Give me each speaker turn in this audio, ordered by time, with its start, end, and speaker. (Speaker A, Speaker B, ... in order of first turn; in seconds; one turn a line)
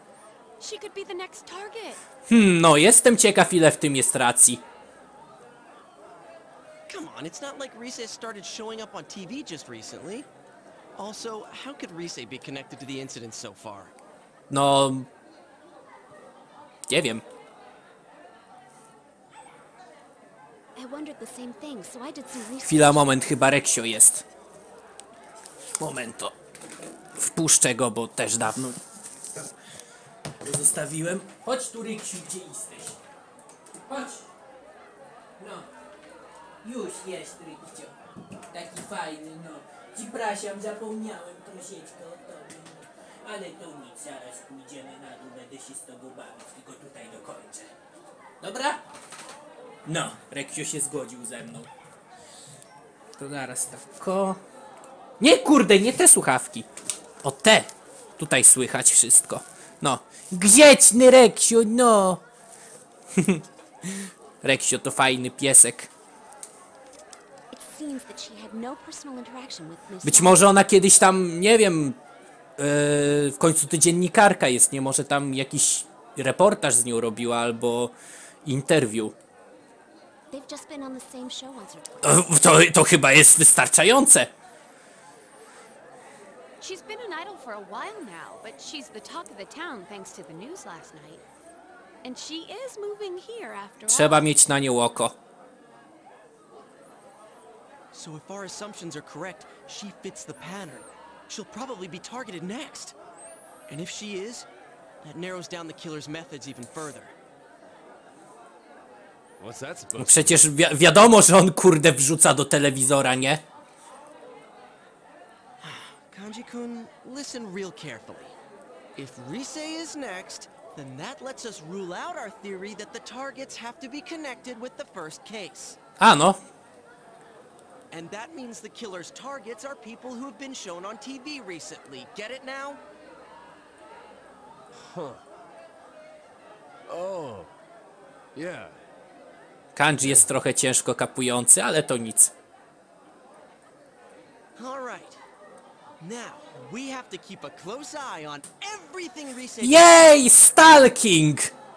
Speaker A: 0.6-2.0
Speaker B: 2.3-4.6
Speaker C: 6.9-10.3
Speaker C: 10.9-13.9
Speaker B: 14.5-15.1
Speaker B: 16.9-17.2
Speaker D: 20.7-23.1
Speaker B: 22.6-24.2
Speaker B: 25.8-26.4
Speaker B: 27.1-28.8
Speaker B: 30.4-33.0
Speaker B: 33.9-34.3
Speaker B: 35.4-35.7
Speaker B: 36.6-37.9
Speaker B: 38.5-47.7
Speaker B: 48.4-48.8
Speaker B: 49.8-51.7
Speaker B: 53.2-54.4
Speaker B: 55.2-56.7
Speaker B: 57.2-62.2
Speaker B: 63.1-65.9
Speaker D: 67.5-70.4
Speaker B: 70.0-72.0
Speaker B: 72.6-79.2
Speaker D: 80.3-82.0
Speaker B: 82.0-84.3
Speaker A: 86.6-91.2
Speaker A: 92.0-94.2
Speaker B: 93.9-95.2
Speaker C: 97.9-103.0
Speaker C: 103.7-104.5
Speaker C: 105.0-107.1
Speaker E: 109.4-110.3
Speaker B: 110.0-113.4
Speaker C: 115.6-118.3
Speaker C: 119.0-125.8
Speaker B: 126.0-126.4
Speaker C: 127.9-132.8
Speaker E: 134.7-135.2
Speaker E: 136.9-137.5
Speaker E: 138.3-138.8
Speaker B: 139.8-142.3
Speaker C: 144.6-145.2
Speaker C: 146.0-149.9
Speaker B: 149.6-151.5